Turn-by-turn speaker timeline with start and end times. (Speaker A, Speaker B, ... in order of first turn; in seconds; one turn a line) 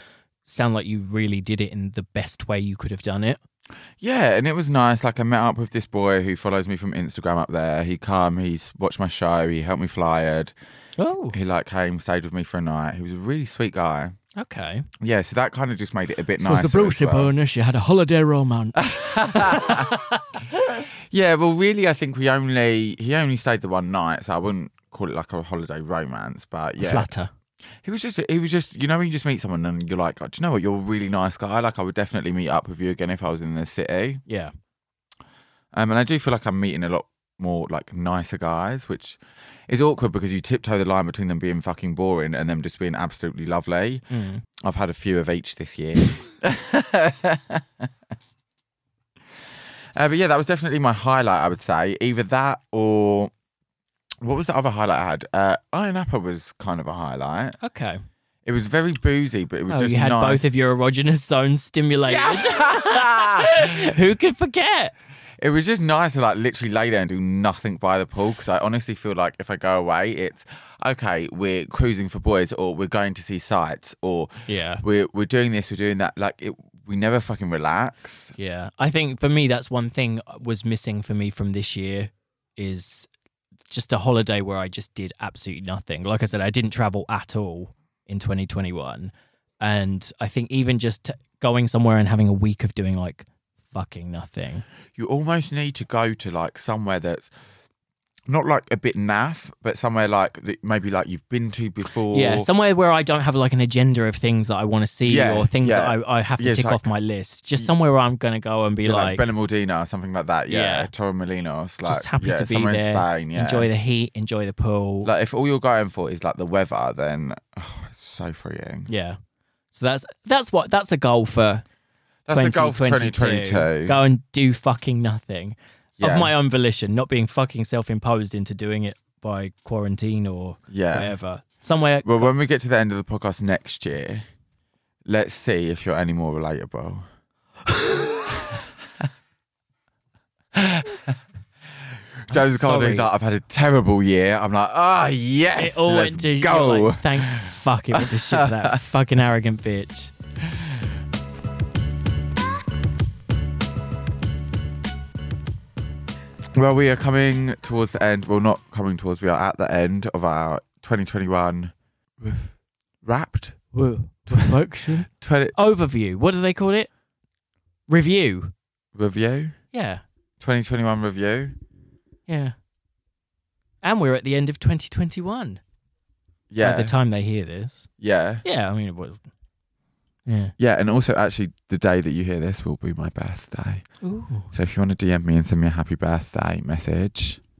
Speaker A: 0.5-3.4
Speaker B: 4.0-10.5
Speaker A: 11.0-11.3
Speaker B: 11.3-14.2
Speaker A: 14.3-14.9
Speaker B: 15.0-17.3
Speaker A: 16.4-20.4
Speaker B: 18.8-19.9
Speaker B: 21.1-27.1
Speaker A: 26.8-27.3
Speaker B: 27.8-34.2
Speaker A: 34.3-34.5
Speaker B: 35.7-44.0
Speaker A: 44.1-44.4
Speaker B: 44.6-47.9
Speaker B: 50.0-53.3
Speaker B: 54.2-57.6
Speaker A: 57.6-58.0
Speaker B: 58.4-60.5
Speaker A: 59.7-64.9
Speaker B: 62.1-63.9
Speaker B: 65.4-78.3
Speaker A: 74.5-74.8
Speaker A: 78.4-83.1
Speaker A: 83.7-94.6
Speaker B: 95.0-97.3
Speaker B: 98.3-102.5
Speaker A: 102.1-109.2
Speaker B: 105.0-106.8
Speaker B: 108.8-113.7
Speaker A: 110.5-110.9
Speaker A: 111.8-115.1
Speaker B: 115.0-118.9
Speaker A: 118.9-119.2
Speaker A: 119.7-121.6
Speaker B: 122.2-124.0
Speaker A: 122.3-132.3
Speaker B: 126.0-126.3
Speaker B: 130.7-131.1
Speaker B: 132.0-134.2
Speaker B: 135.1-137.1
Speaker B: 140.5-141.1
Speaker B: 142.3-148.8
Speaker A: 142.3-143.1
Speaker A: 145.6-150.1
Speaker B: 156.5-163.6
Speaker A: 163.7-166.9
Speaker B: 165.1-165.6
Speaker A: 167.9-168.5
Speaker B: 168.9-169.6
Speaker A: 169.7-170.0
Speaker B: 170.4-171.6
Speaker A: 172.3-172.5
Speaker A: 173.8-175.6
Speaker B: 176.5-176.9
Speaker A: 176.6-177.9
Speaker B: 178.0-178.4
Speaker A: 178.4-179.2
Speaker A: 180.2-180.5
Speaker B: 180.6-183.9
Speaker A: 184.0-184.5
Speaker B: 184.5-187.4